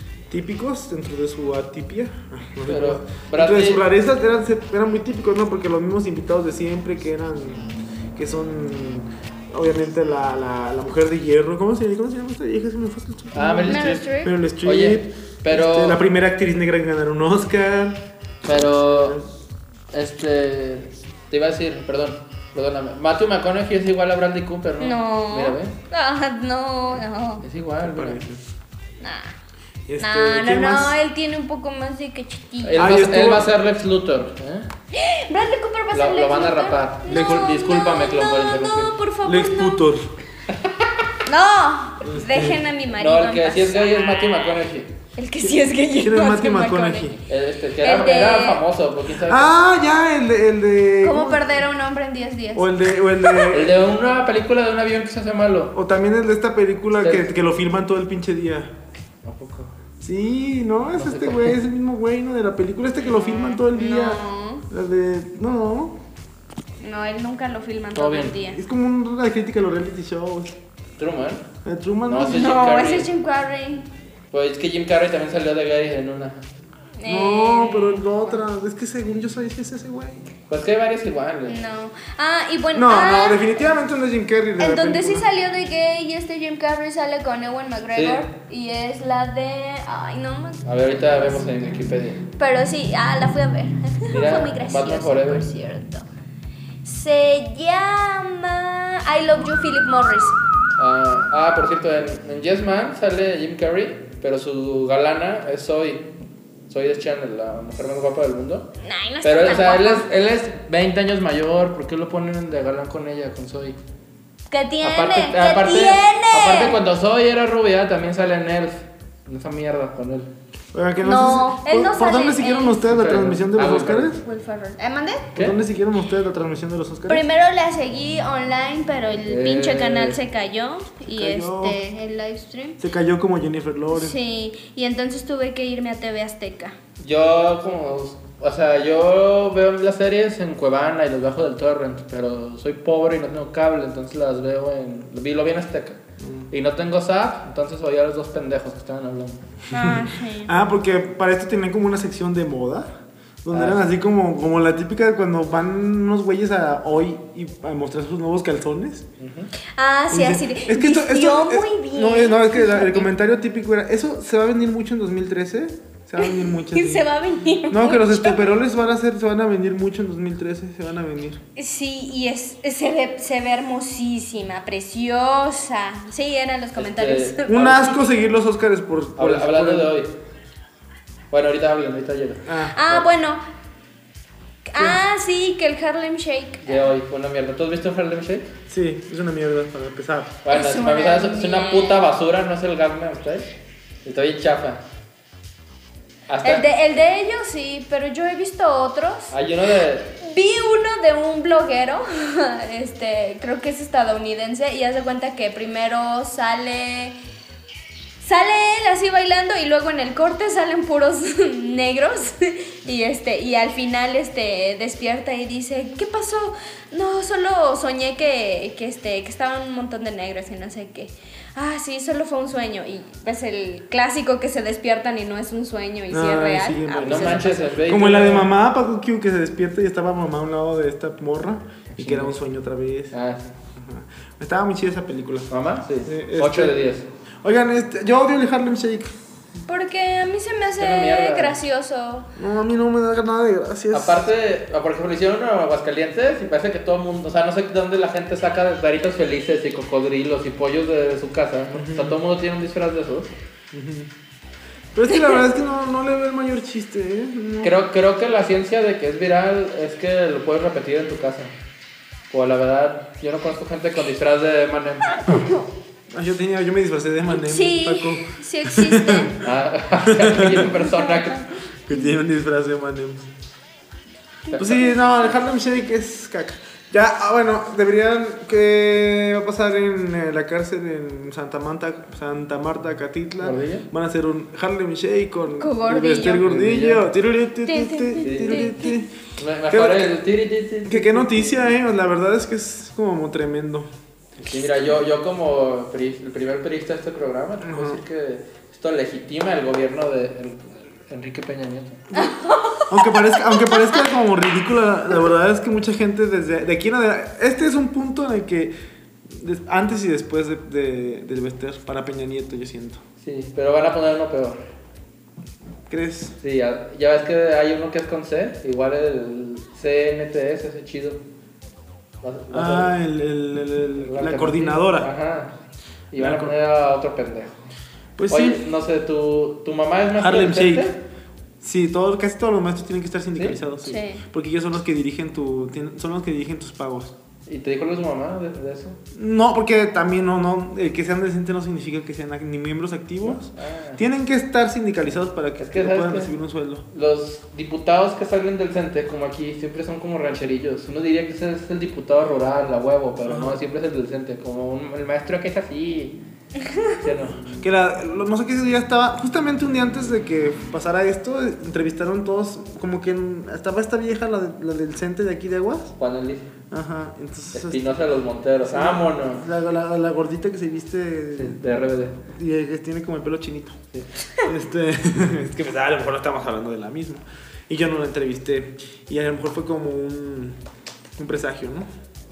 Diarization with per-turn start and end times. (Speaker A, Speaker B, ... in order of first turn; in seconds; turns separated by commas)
Speaker A: 0.3-19.2, Speaker B: 2.6-3.8, Speaker B: 13.3-14.1, Speaker C: 13.7-14.3, Speaker B: 14.6-16.0, Speaker B: 18.4-19.2, Speaker B: 19.9-25.7, Speaker C: 24.8-27.4, Speaker B: 27.4-28.2, Speaker A: 27.8-28.4, Speaker C: 29.0-29.3, Speaker A: 29.9-31.0, Speaker C: 30.0-32.9, Speaker B: 32.6-34.7, Speaker A: 32.8-33.5, Speaker C: 34.9-39.9, Speaker B: 35.9-39.0, Speaker A: 39.2-40.1, Speaker C: 41.2-44.5, Speaker A: 42.0-42.6, Speaker B: 43.0-44.9, Speaker C: 45.1-47.2, Speaker A: 45.4-47.2, Speaker B: 47.3-49.6, Speaker C: 47.8-48.6, Speaker A: 49.1-51.6, Speaker C: 51.0-53.5, Speaker A: 52.5-53.9, Speaker B: 53.5-55.7, Speaker A: 55.7-58.7, Speaker B: 57.0-57.2, Speaker B: 59.2-59.7, Speaker A: 60.0-66.0, Speaker B: 61.0-61.6, Speaker C: 63.1-64.7, Speaker C: 66.8-68.6, Speaker B: 67.9-68.3, Speaker A: 68.5-70.5, Speaker B: 71.0-71.5, Speaker A: 71.6-72.5, Speaker B: 72.0-73.1, Speaker C: 72.2-73.9, Speaker B: 74.3-76.4, Speaker C: 77.0-78.4, Speaker A: 77.0-80.3, Speaker B: 80.5-81.6, Speaker C: 81.5-83.4, Speaker A: 82.7-85.3, Speaker C: 84.6-91.4, Speaker B: 87.9-88.3, Speaker B: 90.6-92.2, Speaker C: 92.4-96.0, Speaker B: 94.1-95.5, Speaker C: 96.8-100.4, Speaker B: 100.8-106.1, Speaker B: 106.7-108.7, Speaker C: 108.8-110.1, Speaker B: 109.2-113.8, Speaker C: 114.5-116.8, Speaker B: 114.8-120.3, Speaker A: 120.7-124.2, Speaker C: 121.0-122.8, Speaker B: 122.9-124.2, Speaker C: 124.1-125.3, Speaker A: 125.3-127.2, Speaker C: 127.1-132.8, Speaker B: 129.3-130.2, Speaker A: 131.0-131.8, Speaker A: 132.8-134.2, Speaker C: 133.9-136.8, Speaker B: 137.0-149.4, Speaker A: 146.2-146.5, Speaker C: 149.7-150.5, Speaker A: 149.7-159.1, Speaker B: 153.5-153.8, Speaker B: 159.2-159.5, Speaker C: 159.7-163.1, Speaker A: 160.1-167.1, Speaker C: 166.2-168.5, Speaker A: 167.7-171.4, Speaker C: 171.6-177.9, Speaker B: 176.8-177.9, Speaker A: 177.5-179.9, Speaker B: 179.2-180.1, Speaker B: 181.3-183.1, Speaker A: 182.4-182.7, Speaker C: 182.7-183.4, Speaker C: 184.7-186.9, Speaker B: 186.6-188.5, Speaker A: 188.7-190.4, Speaker B: 190.4-193.5, Speaker C: 190.5-192.0, Speaker B: 194.0-194.8, Speaker B: 196.3-196.7, Speaker C: 196.4-199.3, Speaker B: 199.3-200.2, Speaker C: 200.2-207.2, Speaker C: 208.2-227.7, Speaker A: 226.1-233.2, Speaker B: 227.0-228.5, Speaker B: 231.9-232.3, Speaker B: 233.1-233.5, Speaker A: 233.7-235.5, Speaker B: 235.5-237.1, Speaker A: 236.0-236.8, Speaker A: 237.4-239.1, Speaker C: 239.7-242.3, Speaker B: 240.8-241.6, Speaker A: 242.3-244.3, Speaker B: 243.9-253.3, Speaker A: 251.7-252.2, Speaker A: 253.7-254.1, Speaker A: 254.9-257.8, Speaker B: 257.6-261.5, Speaker B: 262.3-265.4, Speaker A: 266.1-269.4, Speaker C: 267.4-269.4, Speaker B: 269.4-271.5, Speaker A: 270.0-270.8, Speaker A: 271.9-273.3, Speaker B: 274.5-274.9, Speaker A: 274.6-290.2, Speaker B: 283.4-283.9, Speaker C: 285.6-286.4, Speaker B: 286.4-287.1, Speaker C: 287.6-289.0, Speaker B: 288.2-288.8, Speaker B: 289.4-291.7, Speaker A: 290.8-293.9, Speaker B: 294.4-302.0, Speaker A: 297.6-298.0, Speaker C: 302.1-304.0, Speaker A: 302.9-308.7, Speaker A: 309.3-313.0, Speaker B: 313.2-314.6, Speaker A: 315.9-316.3, Speaker B: 316.4-321.2, Speaker B: 322.2-322.9, Speaker A: 322.5-325.1, Speaker B: 324.0-325.5, Speaker B: 326.1-327.6, Speaker A: 326.2-326.6, Speaker A: 328.2-328.6, Speaker B: 328.3-331.0, Speaker A: 330.2-330.9, Speaker A: 331.6-337.1, Speaker C: 333.8-334.2, Speaker B: 337.4-339.0, Speaker A: 339.1-346.9, Speaker B: 343.2-344.0, Speaker B: 345.6-346.3, Speaker B: 346.9-356.2, Speaker A: 353.2-353.6, Speaker B: 356.9-357.4, Speaker A: 357.5-365.9, Speaker B: 366.0-366.5, Speaker A: 366.7-367.8, Speaker B: 367.5-369.4, Speaker A: 368.7-373.8, Speaker B: 371.4-372.2, Speaker A: 374.4-380.6, Speaker A: 381.2-381.9